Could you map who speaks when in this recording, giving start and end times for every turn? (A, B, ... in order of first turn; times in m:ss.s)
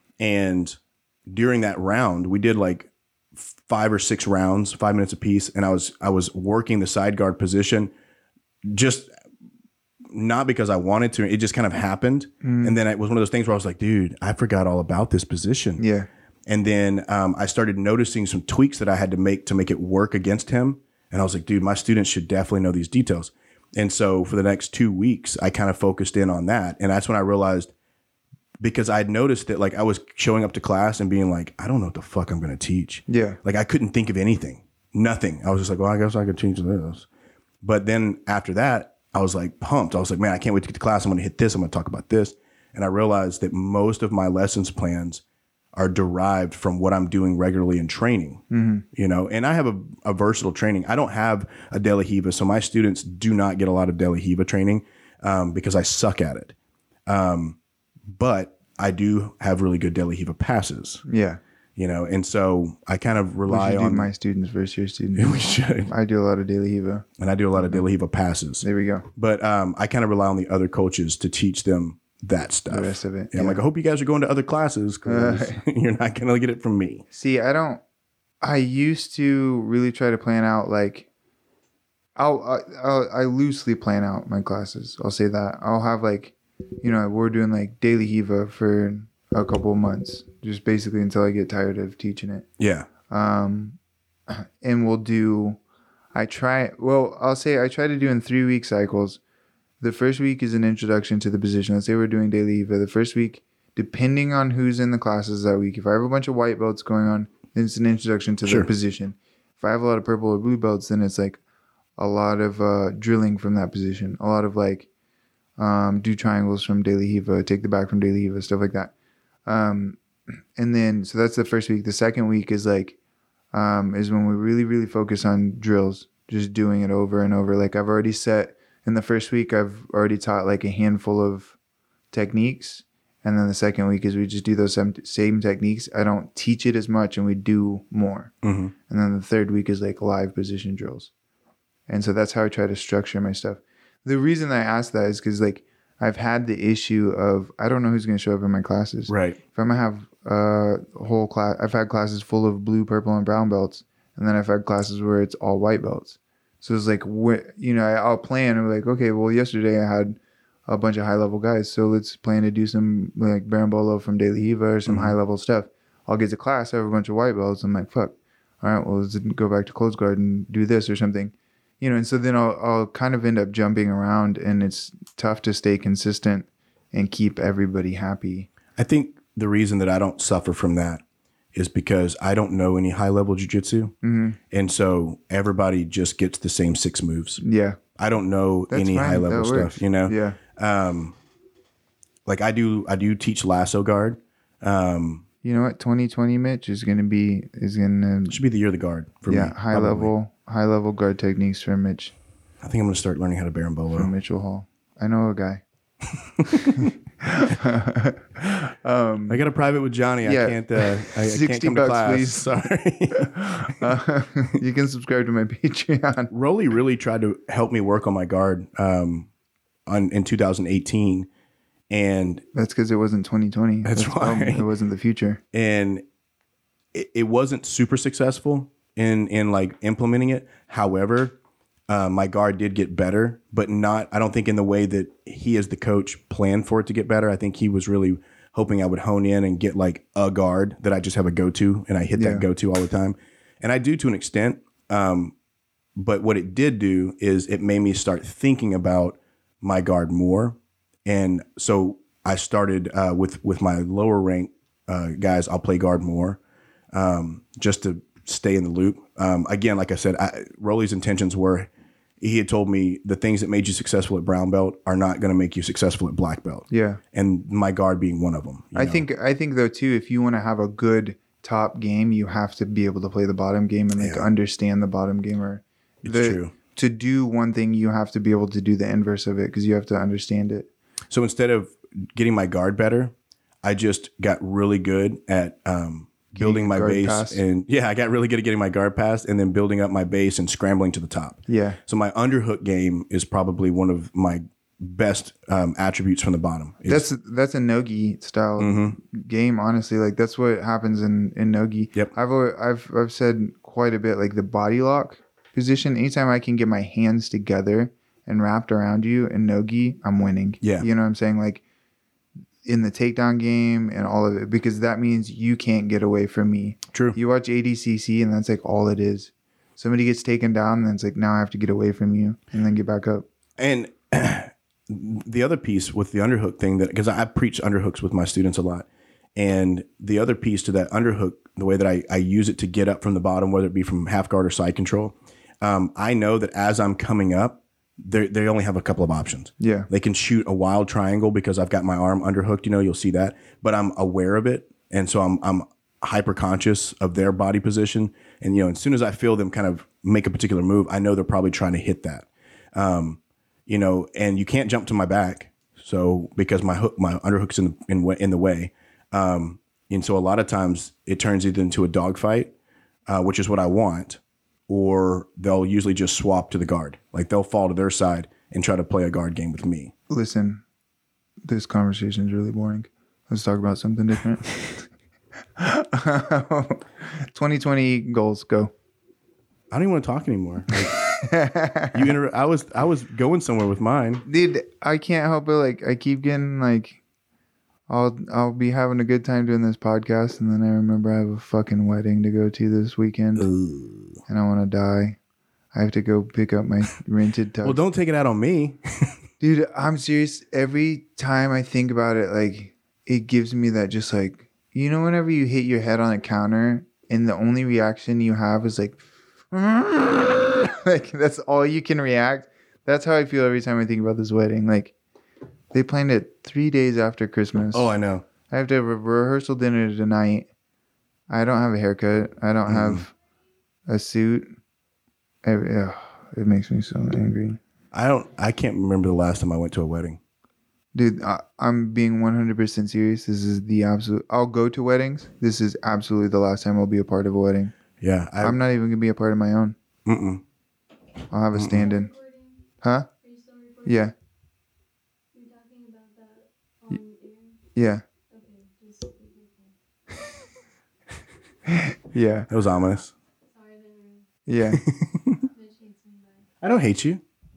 0:00.2-0:07.9 A
0:08.7-0:09.1 A
0:10.1-0:15.8 A
0:12.4-0:12.8 B
0:15.8-0:16.1 B
0:16.5-0:27.7 A
0:28.6-0:37.1 A
0:33.1-0:33.4 B
0:37.6-0:45.2 A
0:45.7-0:48.4 A
0:48.5-0:48.8 B
0:48.9-0:56.5 A
0:57.1-0:57.6 A
0:58.1-1:01.0 A
1:01.1-1:01.4 B
1:01.8-1:04.1 A
1:03.5-1:07.0 B
1:05.2-1:05.9 A
1:07.2-1:17.0 A
1:07.6-1:07.8 B
1:08.6-1:09.1 B
1:12.7-1:13.6 B
1:15.1-1:15.6 B
1:17.1-1:17.8 B
1:18.4-1:21.1 B
1:22.2-1:32.5 B
1:32.6-1:32.9 A
1:33.1-1:33.8 B
1:34.3-1:35.6 B
1:36.1-1:39.2 B
1:39.8-1:51.4 B
1:52.0-1:54.9 B
1:55.6-1:58.9 B
1:59.5-2:00.0 B
2:00.6-2:03.0 B
2:03.5-2:11.5 B
2:12.1-2:18.3 B
2:18.4-2:18.7 A
2:18.9-2:21.1 B
2:21.9-2:58.5 B
2:29.1-2:29.4 A
2:44.9-2:45.2 A
2:58.8-3:01.0 A
3:01.5-3:03.9 A
3:04.0-3:04.4 B
3:04.5-3:07.4 A
3:07.4-3:07.8 B
3:08.0-3:11.2 A
3:08.7-3:10.4 B
3:12.3-3:15.2 A
3:15.4-3:18.4 B
3:18.3-3:20.1 A
3:19.3-3:22.1 B
3:22.6-3:24.1 A
3:23.9-3:25.6 B
3:26.2-3:26.9 A
3:26.8-3:29.4 B
3:29.3-3:33.7 A
3:30.2-3:32.5 B
3:33.1-3:36.3 B
3:36.3-3:39.3 A
3:39.9-3:41.3 A
3:41.9-3:42.4 A
3:42.5-3:45.4 B
3:43.8-3:44.6 A
3:45.5-3:46.0 A
3:46.9-3:51.4 A
3:51.9-4:05.3 A
4:02.2-4:02.5 B
4:06.0-4:16.4 A
4:16.9-4:21.7 A
4:22.2-4:29.0 A
4:26.7-4:27.0 B
4:28.8-4:40.7 B
4:34.0-4:34.3 A
4:36.0-4:36.5 A
4:41.1-4:57.1 A
4:46.4-4:47.4 B
4:51.5-4:51.8 B
4:56.9-5:11.6 B
4:58.6-4:59.0 A
5:10.6-5:10.9 A
5:12.6-5:23.3 B
5:16.9-5:17.2 A
5:23.6-6:02.5 A
5:39.6-5:39.9 B
6:03.1-6:09.9 A
6:10.1-6:10.6 B
6:11.4-6:14.9 B
6:15.6-6:18.7 B
6:19.7-6:20.9 A
6:20.8-6:22.1 B
6:21.9-6:24.2 A
6:24.3-6:27.0 B
6:27.9-6:33.5 B
6:33.4-6:34.2 A
6:34.3-6:35.2 B
6:35.7-6:37.8 B
6:37.6-6:39.2 A
6:39.4-6:54.9 B
6:55.7-6:57.9 B
6:57.7-6:58.3 A
6:58.5-7:00.5 B
7:01.3-7:03.1 B
7:02.7-7:03.0 A
7:03.9-7:04.6 B
7:05.4-7:07.6 B
7:07.9-7:10.2 A
7:10.9-7:17.7 B
7:18.0-7:18.6 A
7:18.4-7:19.8 B
7:20.0-7:20.4 A
7:21.3-7:22.1 B
7:21.5-7:21.8 A
7:21.8-7:24.1 C
7:22.8-7:23.1 B
7:23.9-7:24.1 B
7:25.3-7:27.6 C
7:27.8-7:28.0 B
7:28.3-7:29.8 C
7:31.7-7:32.5 B
7:32.5-7:33.1 A
7:33.4-7:34.3 C
7:34.5-7:34.8 B
7:34.7-7:35.4 A
7:35.5-7:36.5 C
7:36.6-7:37.2 A